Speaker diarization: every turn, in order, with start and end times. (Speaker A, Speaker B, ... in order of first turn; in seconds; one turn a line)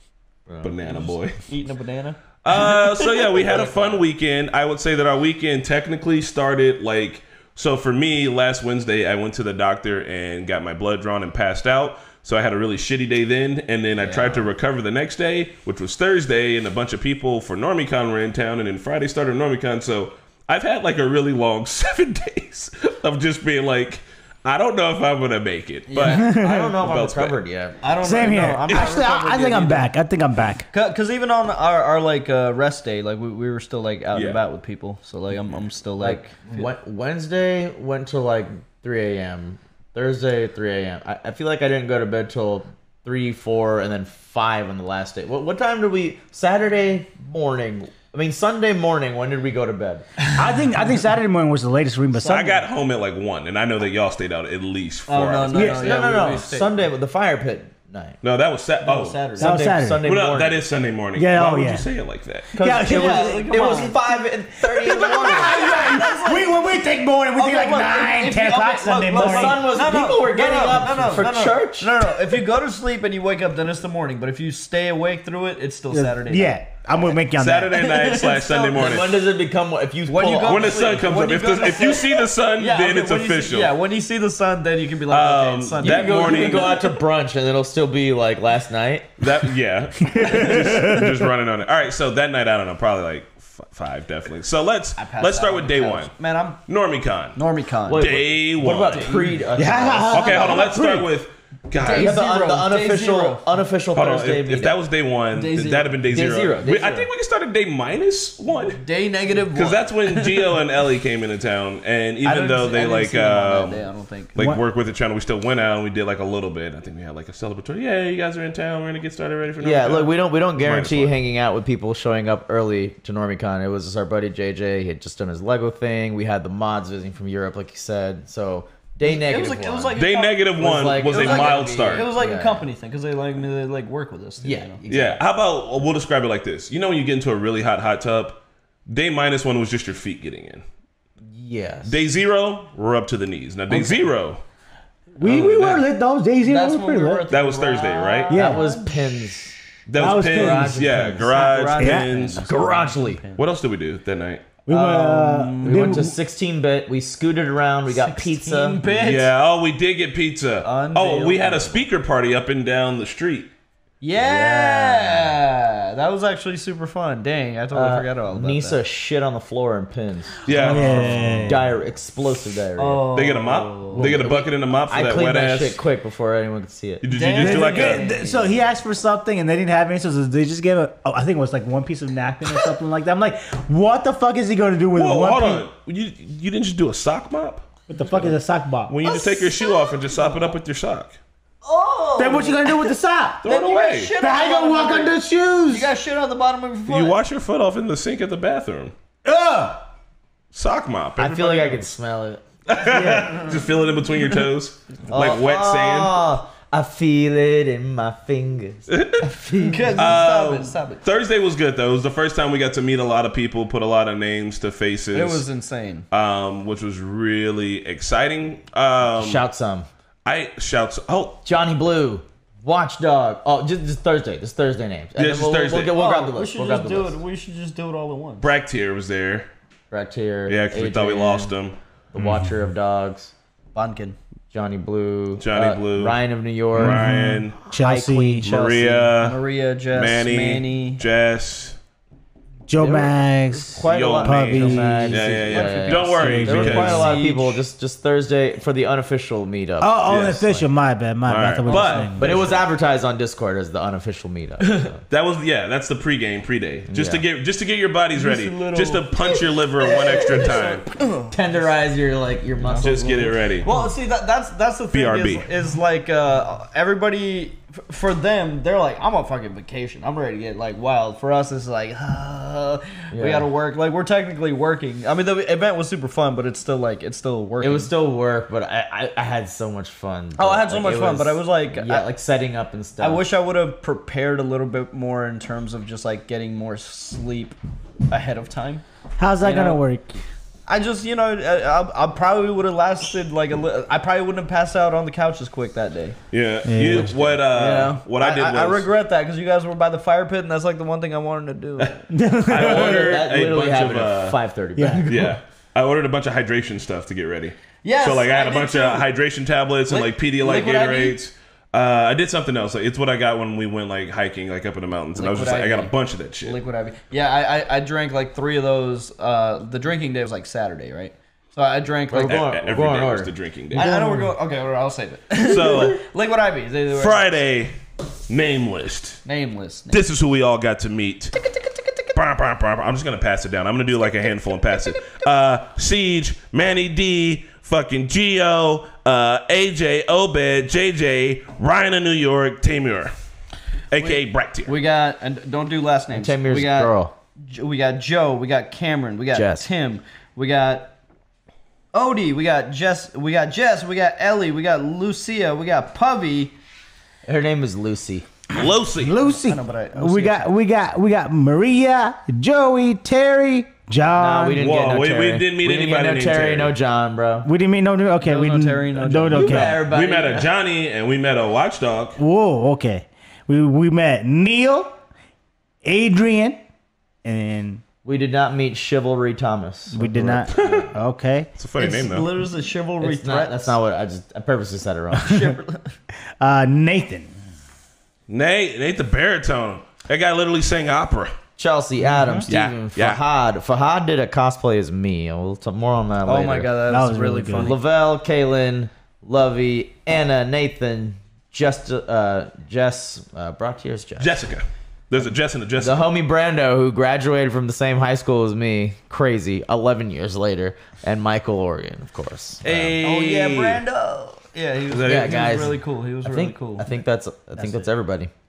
Speaker A: 0.5-1.1
Speaker B: 0.6-1.4
Speaker C: 1.4-3.6
Speaker B: 2.4-27.4
Speaker A: 3.4-4.0
Speaker A: 13.9-14.5
Speaker C: 25.9-26.2
Speaker A: 26.0-28.5
Speaker D: 26.1-26.8
Speaker C: 27.8-29.9
Speaker D: 28.0-30.7
Speaker C: 30.7-36.6
Speaker B: 34.1-34.4
Speaker A: 36.0-50.3
Speaker D: 50.4-52.6
Speaker B: 52.2-55.8
Speaker C: 55.1-56.8
Speaker D: 55.5-55.9
Speaker A: 55.8-58.2
Speaker B: 58.2-59.2
Speaker C: 58.8-59.7
Speaker A: 59.4-60.6
Speaker D: 59.4-60.1
Speaker B: 60.0-62.5
Speaker D: 61.1-61.9
Speaker A: 62.5-65.8
Speaker D: 62.5-64.2
Speaker C: 62.8-64.0
Speaker D: 64.7-69.6
Speaker C: 64.9-66.5
Speaker C: 67.3-76.6
Speaker A: 69.1-72.1
Speaker D: 75.9-77.7
Speaker B: 77.2-79.2
Speaker C: 77.8-78.9
Speaker A: 78.7-81.0
Speaker C: 80.1-86.8
Speaker B: 80.4-83.7
Speaker B: 85.1-86.8
Speaker A: 85.8-89.2
Speaker B: 89.2-96.1
Speaker D: 90.1-91.2
Speaker C: 95.0-96.6
Speaker B: 96.7-97.4
Speaker C: 97.3-98.2
Speaker A: 97.9-100.7
Speaker B: 97.9-99.3
Speaker C: 98.7-99.4
Speaker D: 99.5-101.1
Speaker B: 100.1-102.2
Speaker C: 101.8-103.4
Speaker A: 101.8-104.8
Speaker B: 103.9-108.8
Speaker C: 105.3-106.2
Speaker A: 106.1-107.1
Speaker C: 108.7-110.5
Speaker B: 109.5-121.2
Speaker C: 112.2-114.3
Speaker D: 114.3-114.6
Speaker A: 119.6-129.9
Speaker C: 129.0-134.8
Speaker B: 129.9-132.1
Speaker A: 130.6-132.7
Speaker A: 134.4-135.2
Speaker B: 134.9-140.6
Speaker A: 141.2-142.0
Speaker B: 141.9-144.4
Speaker A: 143.7-144.0
Speaker D: 145.1-147.2
Speaker B: 145.2-145.8
Speaker C: 146.4-148.8
Speaker B: 147.3-148.4
Speaker D: 148.3-148.9
Speaker A: 148.3-151.3
Speaker B: 149.9-152.5
Speaker D: 150.0-150.9
Speaker C: 151.2-153.4
Speaker D: 151.8-152.1
Speaker A: 152.4-153.2
Speaker B: 153.3-154.5
Speaker D: 154.7-156.1
Speaker A: 154.7-158.8
Speaker C: 154.7-156.0
Speaker C: 157.9-159.3
Speaker B: 159.0-163.5
Speaker C: 160.6-161.8
Speaker C: 164.0-168.8
Speaker A: 164.2-165.3
Speaker A: 167.7-173.1
Speaker B: 170.4-171.6
Speaker D: 170.6-171.7
Speaker C: 172.8-174.2
Speaker B: 173.1-175.8
Speaker A: 173.9-178.5
Speaker B: 177.0-178.1
Speaker C: 177.1-178.3
Speaker D: 177.5-185.6
Speaker B: 184.9-188.3
Speaker D: 187.9-189.0
Speaker B: 188.9-191.2
Speaker C: 189.3-190.5
Speaker C: 191.6-192.8
Speaker D: 192.2-193.4
Speaker B: 193.4-194.1
Speaker C: 193.4-195.1
Speaker D: 194.2-195.9
Speaker C: 195.7-197.2
Speaker B: 196.9-198.9
Speaker D: 199.2-199.8
Speaker B: 200.5-201.8
Speaker A: 201.2-203.5
Speaker B: 202.7-206.2
Speaker A: 205.1-210.1
Speaker B: 208.9-209.3
Speaker C: 209.6-211.0
Speaker B: 210.0-215.4
Speaker C: 215.1-216.1
Speaker B: 216.1-219.4
Speaker A: 219.1-219.9
Speaker B: 220.2-221.4
Speaker A: 221.4-227.2
Speaker B: 225.2-225.9
Speaker C: 225.9-228.4
Speaker B: 228.4-229.5
Speaker A: 229.9-231.5
Speaker B: 230.5-231.8
Speaker A: 232.1-233.3
Speaker C: 233.7-234.2
Speaker A: 234.5-239.1
Speaker B: 235.4-236.2
Speaker B: 236.7-237.6
Speaker D: 236.8-238.5
Speaker B: 238.4-239.4
Speaker C: 239.2-241.0
Speaker B: 239.9-241.8
Speaker D: 242.7-245.3
Speaker A: 242.8-243.1
Speaker A: 243.7-250.7
Speaker B: 243.8-247.1
Speaker C: 245.4-247.6
Speaker D: 246.1-247.2
Speaker D: 249.8-252.3
Speaker B: 250.1-250.3
Speaker B: 251.2-252.4
Speaker C: 251.7-252.5
Speaker A: 252.2-255.0
Speaker C: 254.6-254.9
Speaker B: 255.1-260.8
Speaker A: 256.9-257.2
Speaker C: 258.1-259.4
Speaker A: 259.8-260.6
Speaker C: 260.3-261.7
Speaker A: 261.3-263.4
Speaker C: 262.6-262.9
Speaker B: 262.8-263.7
Speaker C: 263.6-277.9
Speaker B: 264.9-265.5
Speaker A: 273.1-273.5
Speaker A: 277.6-283.2
Speaker C: 280.4-282.1
Speaker C: 283.0-288.8
Speaker D: 289.2-290.2
Speaker C: 289.4-289.8
Speaker C: 290.7-296.2
Speaker B: 296.3-298.9
Speaker D: 296.6-297.3
Speaker C: 297.5-302.0
Speaker D: 302.1-303.0
Speaker B: 302.5-304.4
Speaker A: 302.5-305.4
Speaker D: 304.8-305.1
Speaker B: 305.1-316.6
Speaker C: 307.8-309.0
Speaker C: 309.9-311.2
Speaker C: 315.1-322.5
Speaker A: 322.1-323.3
Speaker B: 322.2-323.9
Speaker D: 323.7-324.3
Speaker C: 323.7-327.3
Speaker B: 325.4-326.0
Speaker B: 326.9-327.8
Speaker B: 328.3-329.2
Speaker C: 329.2-330.0
Speaker B: 329.9-331.4
Speaker B: 332.1-343.1
Speaker B: 343.9-344.7
Speaker C: 343.9-350.9
Speaker A: 346.1-347.1
Speaker A: 349.3-349.6
Speaker C: 351.9-356.5
Speaker A: 357.2-358.3
Speaker B: 358.5-359.1
Speaker D: 358.5-364.6
Speaker C: 359.1-360.4
Speaker A: 364.1-367.5
Speaker B: 364.6-366.7
Speaker D: 367.4-369.8
Speaker C: 368.2-369.8
Speaker A: 369.3-370.5
Speaker B: 369.8-372.2
Speaker D: 372.2-374.9
Speaker D: 375.8-376.6
Speaker D: 377.2-377.8
Speaker A: 378.0-380.9
Speaker D: 379.9-381.5
Speaker B: 380.5-380.9
Speaker B: 381.6-382.3
Speaker C: 381.8-383.8
Speaker A: 383.0-385.4
Speaker C: 385.2-385.9
Speaker D: 386.4-387.3
Speaker B: 388.3-391.3
Speaker A: 391.6-396.7
Speaker D: 392.1-392.4
Speaker B: 392.5-393.2
Speaker C: 396.2-397.8
Speaker D: 396.9-397.7
Speaker A: 397.5-404.3
Speaker B: 404.2-406.0
Speaker A: 405.8-413.0
Speaker B: 412.6-413.8
Speaker C: 412.7-416.9
Speaker B: 414.9-415.4
Speaker A: 415.0-418.3
Speaker C: 417.6-417.9